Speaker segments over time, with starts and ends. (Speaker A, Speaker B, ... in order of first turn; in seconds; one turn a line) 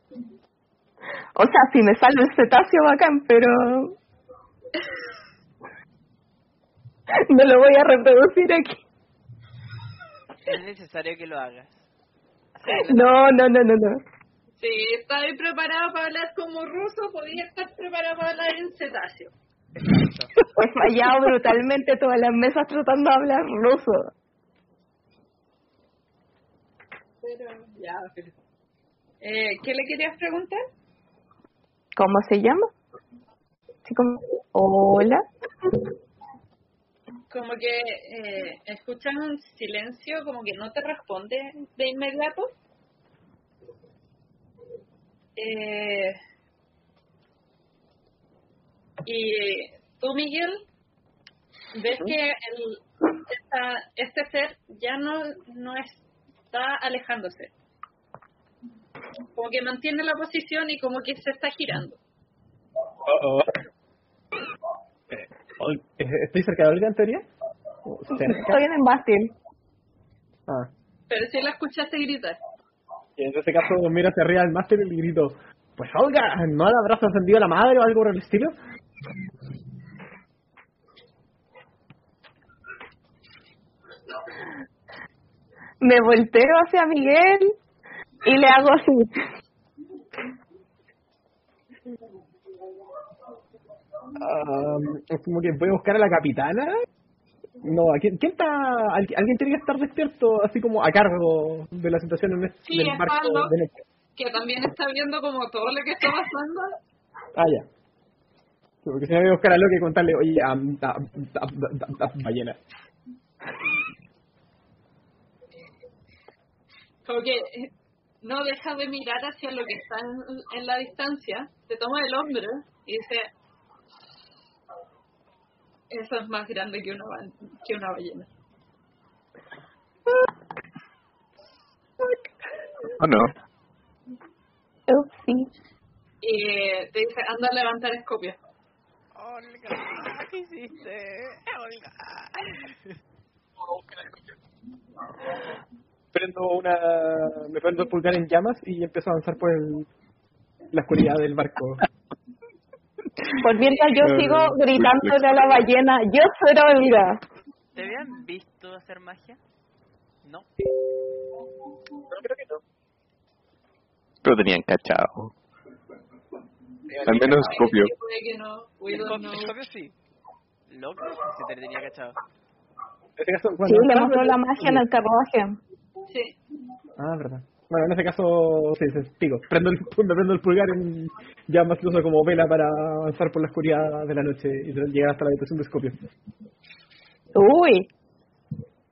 Speaker A: 1.4-4.0
Speaker A: 7.1-8.8
Speaker B: 10.4-11.9
Speaker B: 12.6-13.1
Speaker A: 12.7-14.0
Speaker C: 14.6-19.3
Speaker A: 20.6-24.1
Speaker C: 27.2-28.3
Speaker C: 29.2-30.6
Speaker A: 31.9-32.7
Speaker A: 33.9-35.2
Speaker C: 37.3-42.5
Speaker C: 45.4-46.1
Speaker C: 49.0-50.6
Speaker C: 51.7-57.5
Speaker C: 59.4-62.0
Speaker D: 63.1-63.6
Speaker D: 65.1-67.3
Speaker D: 67.9-68.6
Speaker A: 68.1-69.3
Speaker C: 71.1-72.4
Speaker D: 73.2-78.5
Speaker A: 85.8-87.6
Speaker A: 88.2-89.2
Speaker D: 94.2-96.7
Speaker D: 97.6-103.8
Speaker C: 102.7-103.6
Speaker C: 104.2-106.7
Speaker D: 107.4-107.7
Speaker D: 108.8-112.6
Speaker C: 117.0-117.7
Speaker C: 118.2-123.3
Speaker C: 125.9-128.3
Speaker E: 133.0-133.3
Speaker A: 134.9-135.5
Speaker C: 136.2-138.4
Speaker B: 139.2-142.8
Speaker D: 143.6-144.1
Speaker D: 146.1-149.9
Speaker D: 150.7-151.8
Speaker A: 153.4-157.2
Speaker D: 154.1-154.6
Speaker E: 154.8-155.2
Speaker B: 157.7-159.4
Speaker D: 162.1-162.6
Speaker E: 164.2-165.3
Speaker E: 167.1-167.9
Speaker C: 167.1-169.5
Speaker B: 168.9-169.9
Speaker B: 170.7-172.2
Speaker D: 173.2-174.8
Speaker A: 173.6-175.6
Speaker C: 176.1-176.4
Speaker D: 177.0-186.0
Speaker A: 187.3-187.9